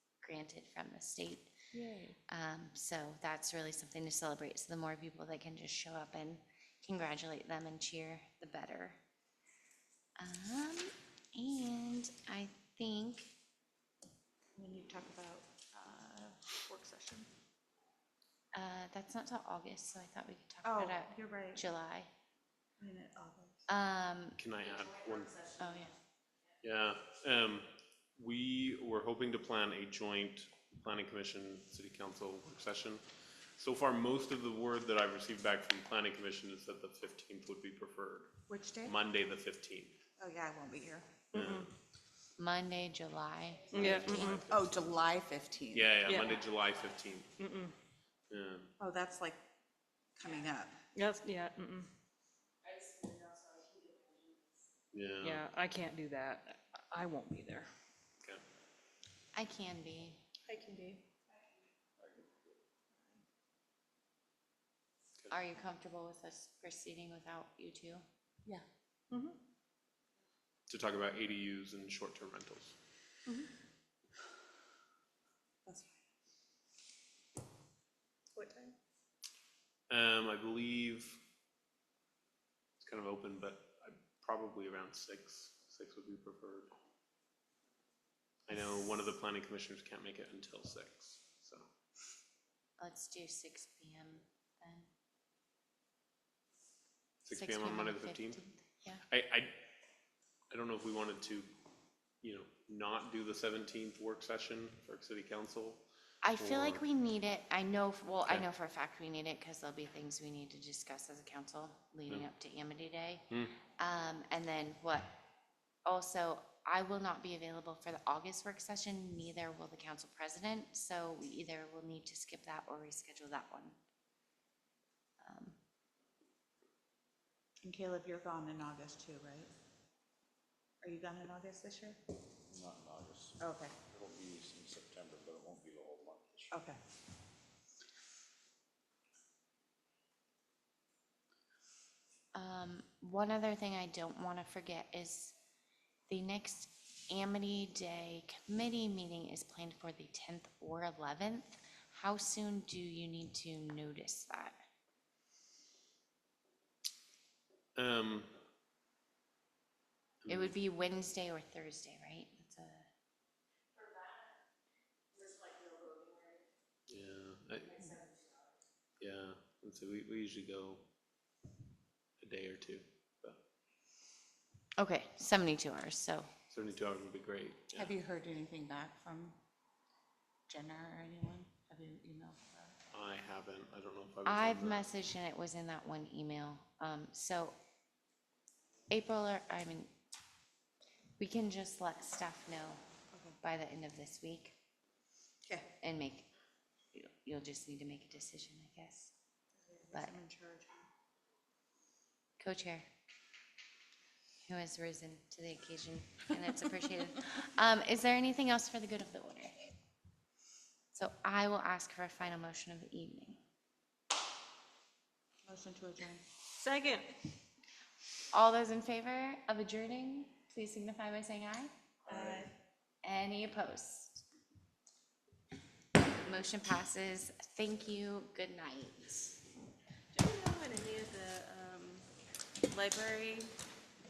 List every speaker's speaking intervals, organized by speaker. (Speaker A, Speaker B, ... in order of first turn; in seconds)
Speaker A: 0.2-1.5, 2.3-9.0, 10.2-13.3, 18.5-22.1, 23.7-24.4, 25.6-25.9, 42.4-44.5, 59.3-60.2, 65.3-68.0, 92.8-94.9, 97.3-99.0, 106.2-115.1, 115.9-123.8, 125.2-125.6, 142.3-145.3, 146.1-154.6, 160.3-162.9, 174.8-176.3, 184.2-187.6, 188.9-189.9, 191.2-192.8, 193.4-194.6, 195.8-196.3, 196.9-199.1, 199.9-200.2, 202.4-202.9, 204.4-209.7, 210.9-213.4, 218.3-221.7, 223.0-224.3, 226.0-229.4
Speaker B: 14.6-17.3, 20.6-21.6, 22.8-23.7, 38.5-39.0, 40.2-41.2, 44.5-46.0, 48.8-49.4, 50.2-50.8, 60.5-61.0, 75.7-76.0, 78.3-78.8, 127.6-129.5, 130.8-132.0, 133.4-133.8, 136.5-136.8, 177.7-179.4, 180.5-182.8, 199.7-200.9, 215.4-216.2, 222.1-222.5
Speaker C: 24.4-25.6, 26.6-33.0, 33.6-40.0, 41.3-41.7, 43.7-45.0, 45.7-47.3, 48.3-48.7, 54.9-55.5, 70.7-72.8, 79.9-81.2, 82.8-86.7, 88.5-91.7, 97.2-98.4, 99.1-99.6, 100.5-101.5, 102.2-106.8, 113.3-113.6, 157.8-158.3, 160.2-160.6, 166.9-167.9, 169.0-170.9, 172.2-173.4, 176.5-177.9, 182.9-184.9
Speaker D: 41.3-41.7, 43.7-44.5, 46.0-46.4, 47.4-47.8, 51.0-51.9, 55.2-57.7
Speaker E: 53.0-53.5, 216.6-216.8, 230.1-232.0, 232.7-233.5
Speaker F: 132.5-136.6